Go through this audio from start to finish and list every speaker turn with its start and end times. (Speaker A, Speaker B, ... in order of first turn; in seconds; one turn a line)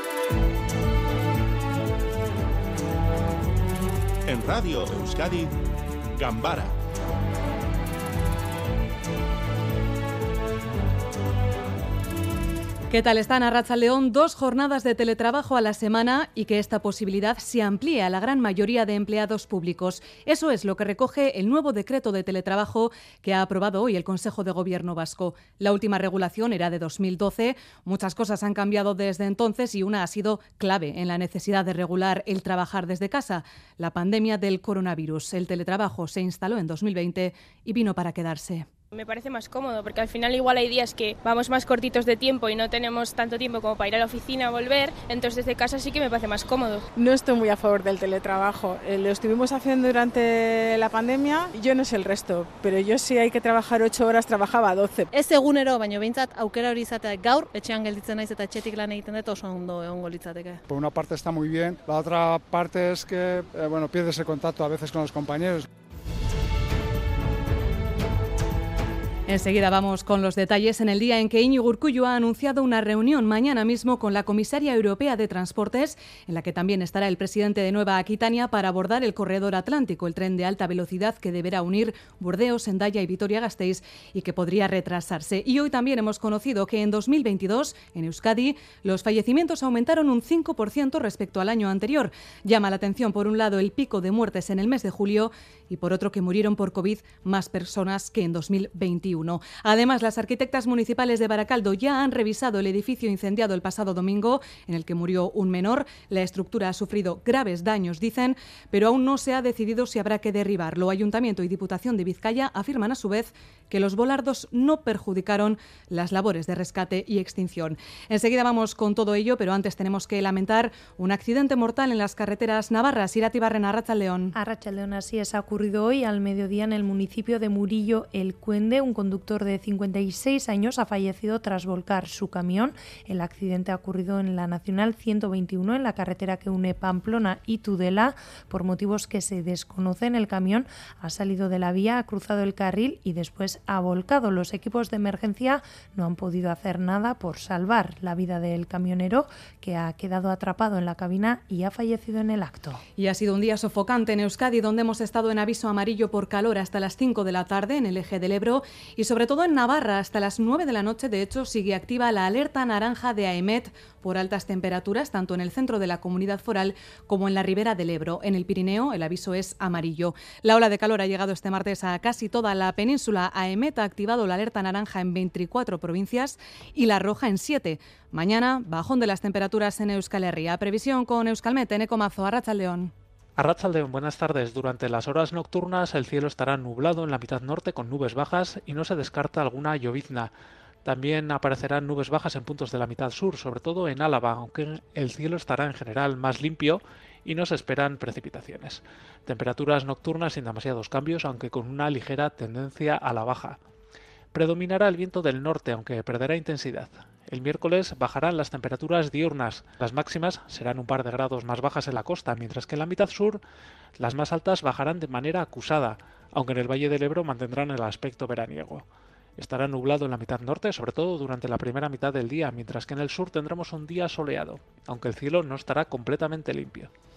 Speaker A: 4.2-5.5
Speaker A: 6.1-6.7
Speaker B: 12.9-38.7
Speaker C: 38.9-46.8
Speaker D: 47.0-55.1
Speaker E: 55.1-60.6
Speaker F: 60.7-65.6
Speaker B: 69.3-124.3
Speaker G: 124.3-152.8
Speaker B: 153.0-182.9
Speaker H: 183.4-190.3
Speaker H: 190.8-203.6
Speaker H: 204.3-213.4
Speaker H: 214.0-218.8
Speaker H: 219.4-226.9